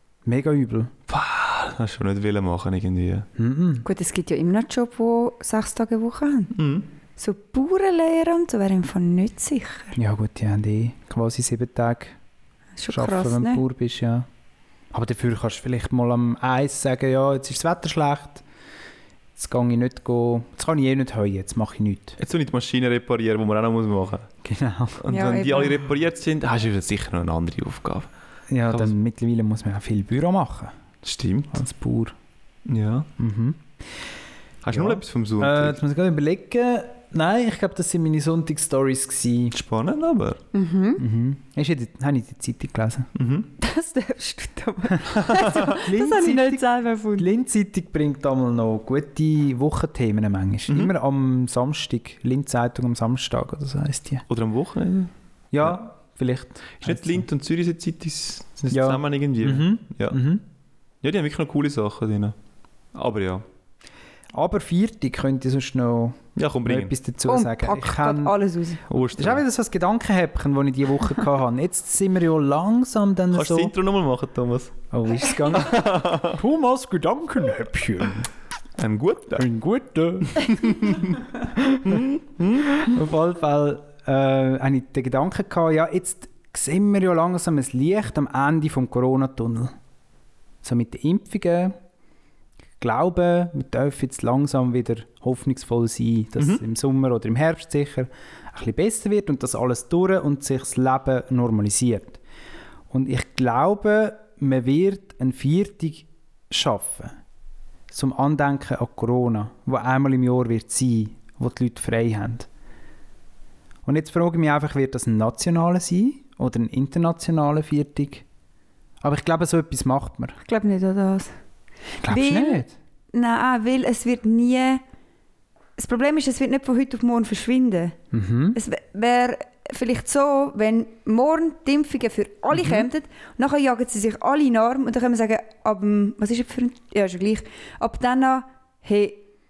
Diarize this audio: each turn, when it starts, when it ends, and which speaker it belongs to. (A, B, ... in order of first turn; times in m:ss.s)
0:00.2-0:00.9 A
0:01.1-0:03.3 B
0:03.4-0:03.9 A
0:03.8-0:06.5 C
0:06.5-0:06.9 B
0:07.2-0:10.0 C
0:10.0-0:12.2 A
0:12.8-0:13.6 C
0:12.9-0:14.3 A
0:14.9-0:18.4 A
0:19.4-0:22.2 A
0:22.2-0:24.3 B
0:24.4-0:25.1 A
0:25.0-0:28.1 B
0:25.1-0:25.8 C
0:28.5-0:30.8 A
0:31.0-0:31.6 B
0:31.5-0:32.2 A
0:32.7-0:33.1 B
0:33.2-0:33.6 A
0:34.6-0:35.8 B
0:34.7-0:39.6 A
0:39.5-0:40.4 B
0:40.5-0:41.0 C
0:41.0-0:43.1 A
0:43.2-0:43.5 B
0:43.6-0:47.3 C
0:45.2-0:45.6 B
0:45.6-0:46.6 A
0:47.2-0:54.2 A
0:50.7-0:50.9 B
0:54.3-0:55.1 B
0:55.5-0:57.3 A
0:56.8-1:00.2 B
0:58.7-1:00.4 A
1:01.0-1:02.4 B
1:02.9-1:03.4 B
1:04.3-1:08.4 A
1:06.4-1:06.9 B
1:07.3-1:08.8 C
1:08.9-1:09.4 B
1:08.9-1:13.7 A
1:13.3-1:14.8 B
1:14.9-1:18.3 A
1:15.5-1:16.4 B
1:18.8-1:19.5 B
1:19.4-1:21.0 A
1:20.4-1:22.9 B
1:21.6-1:22.0 A
1:22.8-1:29.7 A
1:30.6-1:31.8 A
1:32.8-1:42.2 A
1:36.4-1:36.6 B
1:42.9-1:47.2 A
1:47.9-1:52.5 A
1:53.8-1:58.2 A
1:59.0-2:00.4 A
2:00.4-2:01.3 C
2:02.0-2:02.7 A
2:02.0-2:04.8 C
2:05.8-2:08.0 C
2:08.1-2:08.6 A
2:08.5-2:19.2 C
2:12.6-2:12.8 A